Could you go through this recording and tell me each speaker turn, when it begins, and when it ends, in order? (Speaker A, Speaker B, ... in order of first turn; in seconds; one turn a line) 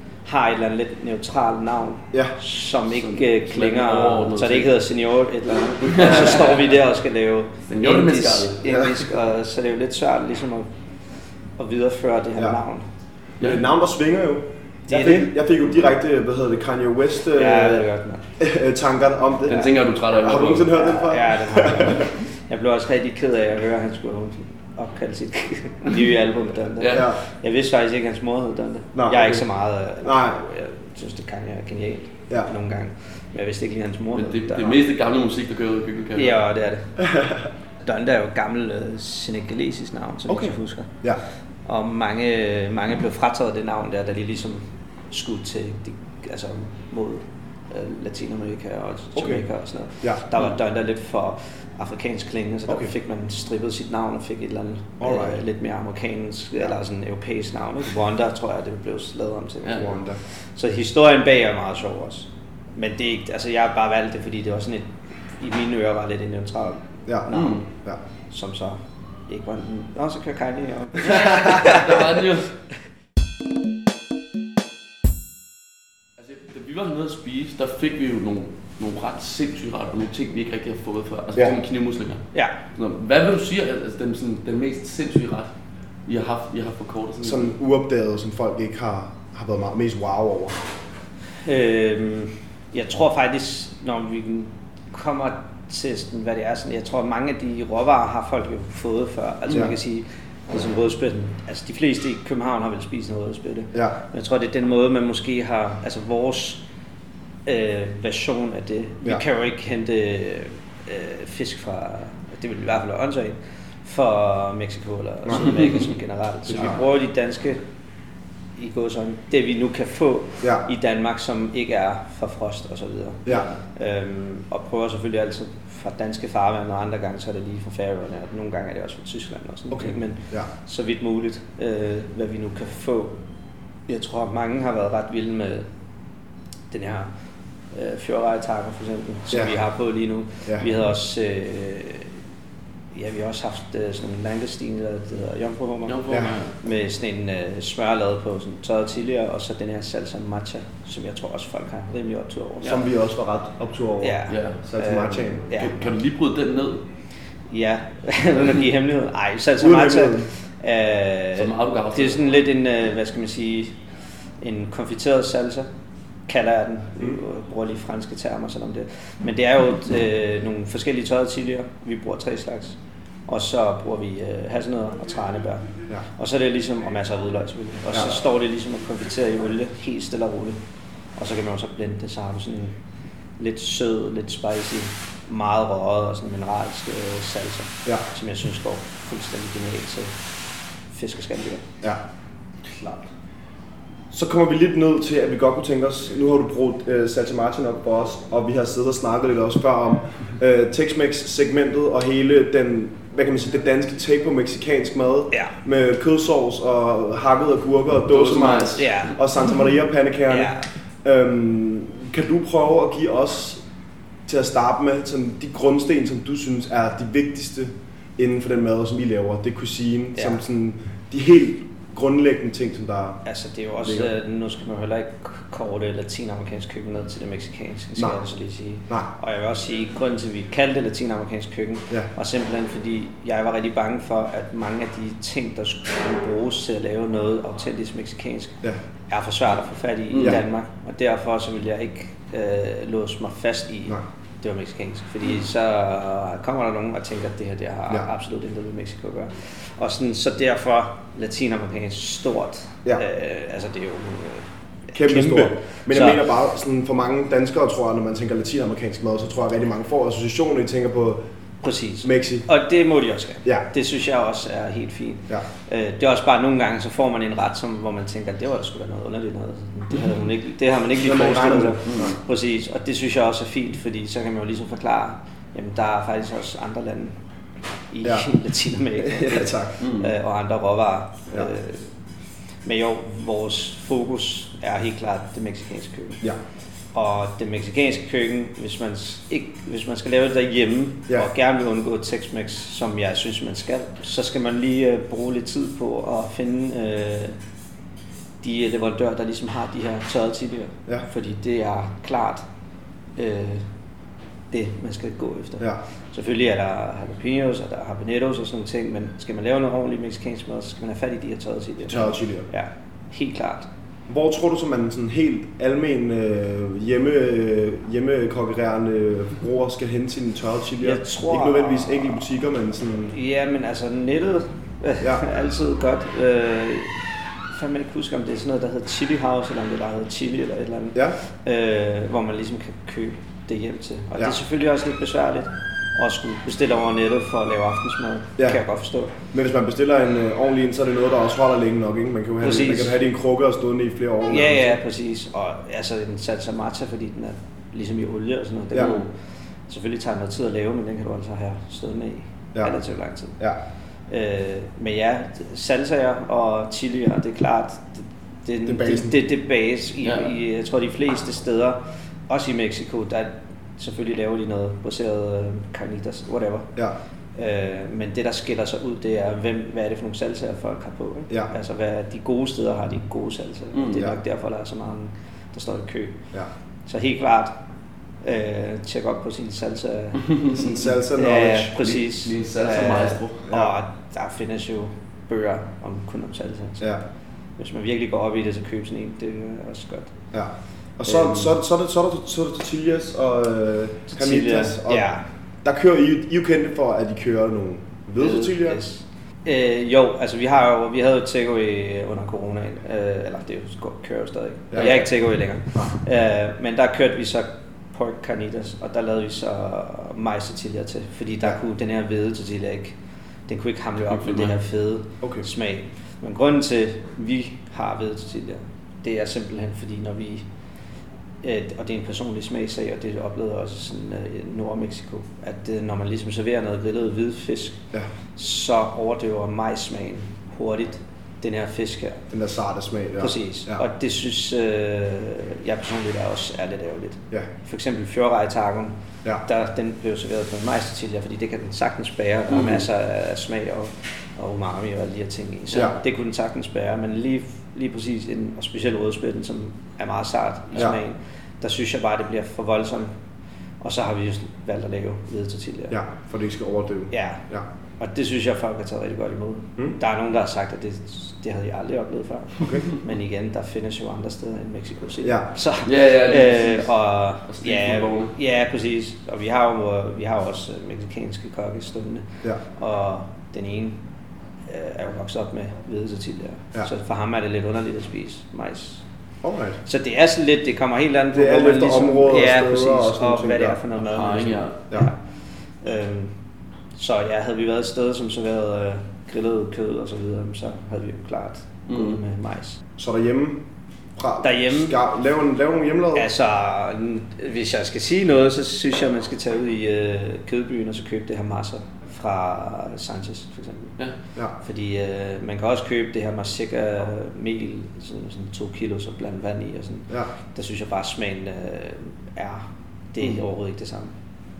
Speaker A: 0.2-10.7
Speaker B: 2.9-4.7
Speaker B: 5.8-6.7
Speaker B: 7.7-8.9
Speaker A: 11.6-12.8
Speaker C: 13.4-17.9
Speaker A: 14.9-15.3
Speaker A: 17.3-18.2
Speaker C: 18.4-22.1
Speaker B: 19.4-20.8
Speaker A: 20.7-34.8
Speaker B: 26.8-27.1
Speaker C: 26.9-27.2
Speaker C: 28.9-29.4
Speaker C: 30.0-30.4
Speaker B: 34.1-36.4
Speaker A: 36.1-36.9
Speaker C: 37.0-37.4
Speaker A: 37.8-40.9
Speaker C: 40.3-41.2
Speaker A: 41.6-60.0
Speaker C: 49.1-49.4
Speaker C: 55.0-55.4
Speaker C: 59.7-60.2
Speaker A: 60.5-67.6
Speaker C: 67.1-68.0
Speaker B: 67.3-67.6
Speaker A: 68.3-72.1
Speaker B: 71.0-72.5
Speaker B: 76.2-85.5
Speaker B: 86.1-87.5
Speaker C: 87.2-90.6
Speaker A: 91.4-106.6
Speaker A: 107.5-117.6
Speaker C: 116.5-116.7
Speaker A: 118.6-133.1
Speaker C: 129.7-130.5
Speaker A: 133.9-135.7
Speaker A: 136.7-137.1
Speaker A: 137.7-142.1
Speaker A: 142.9-146.0
Speaker B: 145.9-146.5
Speaker C: 146.1-146.3
Speaker A: 146.6-152.8
Speaker C: 152.6-155.4
Speaker A: 154.0-155.9
Speaker B: 154.3-154.6
Speaker B: 155.5-156.8
Speaker A: 157.5-163.7
Speaker C: 159.6-160.3
Speaker B: 161.4-162.2
Speaker A: 164.4-165.7
Speaker A: 166.3-172.8
Speaker A: 173.3-180.6
Speaker A: 181.2-182.8
Speaker A: 183.4-190.1
Speaker A: 190.9-191.7
Speaker B: 192.7-193.0
Speaker C: 194.1-213.6
Speaker B: 208.1-209.1
Speaker A: 208.7-209.2
Speaker A: 210.3-210.7
Speaker C: 214.3-223.2
Speaker A: 220.1-220.4
Speaker A: 223.2-256.2
Speaker C: 223.8-224.1
Speaker B: 240.1-240.4
Speaker C: 254.9-261.2
Speaker A: 261.6-277.2
Speaker C: 262.0-262.5
Speaker C: 270.9-272.1
Speaker B: 271.9-272.1
Speaker A: 277.9-281.9
Speaker C: 279.0-279.7
Speaker B: 279.8-280.1
Speaker A: 282.6-286.2
Speaker A: 286.9-297.4
Speaker A: 298.4-302.4
Speaker A: 303.1-303.6
Speaker A: 304.5-313.7
Speaker C: 311.9-312.5
Speaker C: 314.1-323.1
Speaker A: 320.8-322.1
Speaker A: 323.1-326.9
Speaker A: 327.5-339.1
Speaker C: 339.3-344.8
Speaker A: 342.4-343.0
Speaker A: 344.3-349.1
Speaker C: 348.7-349.0
Speaker A: 349.7-353.4
Speaker A: 354.1-366.7
Speaker C: 358.6-359.2
Speaker A: 367.4-376.2
Speaker B: 373.7-374.1
Speaker A: 376.9-377.5
Speaker A: 378.2-380.4
Speaker B: 380.3-380.6
Speaker C: 380.5-381.7
Speaker A: 381.1-386.9
Speaker B: 381.8-383.4
Speaker C: 383.5-383.7
Speaker A: 387.6-390.1
Speaker C: 390.3-395.1
Speaker A: 391.1-391.5
Speaker A: 394.1-395.2
Speaker C: 395.6-398.8
Speaker A: 398.2-412.9
Speaker C: 404.7-405.1
Speaker A: 413.5-420.4
Speaker B: 414.1-414.5
Speaker A: 421.4-427.8
Speaker A: 428.4-432.2
Speaker C: 432.3-433.8
Speaker A: 433.2-453.1
Speaker A: 453.8-456.0
Speaker C: 455.9-457.6
Speaker A: 457.1-457.4
Speaker A: 458.0-474.0
Speaker C: 462.6-462.9
Speaker C: 465.2-465.5
Speaker B: 465.8-466.9
Speaker B: 467.5-468.3
Speaker A: 474.7-479.0
Speaker C: 479.4-479.8
Speaker A: 479.8-485.2
Speaker C: 481.3-483.8
Speaker B: 484.0-484.8
Speaker A: 485.8-486.3
Speaker A: 486.9-492.8
Speaker B: 491.9-492.2
Speaker C: 493.0-493.6
Speaker C: 494.1-496.3
Speaker A: 494.4-494.9
Speaker A: 496.1-503.9
Speaker A: 504.6-514.1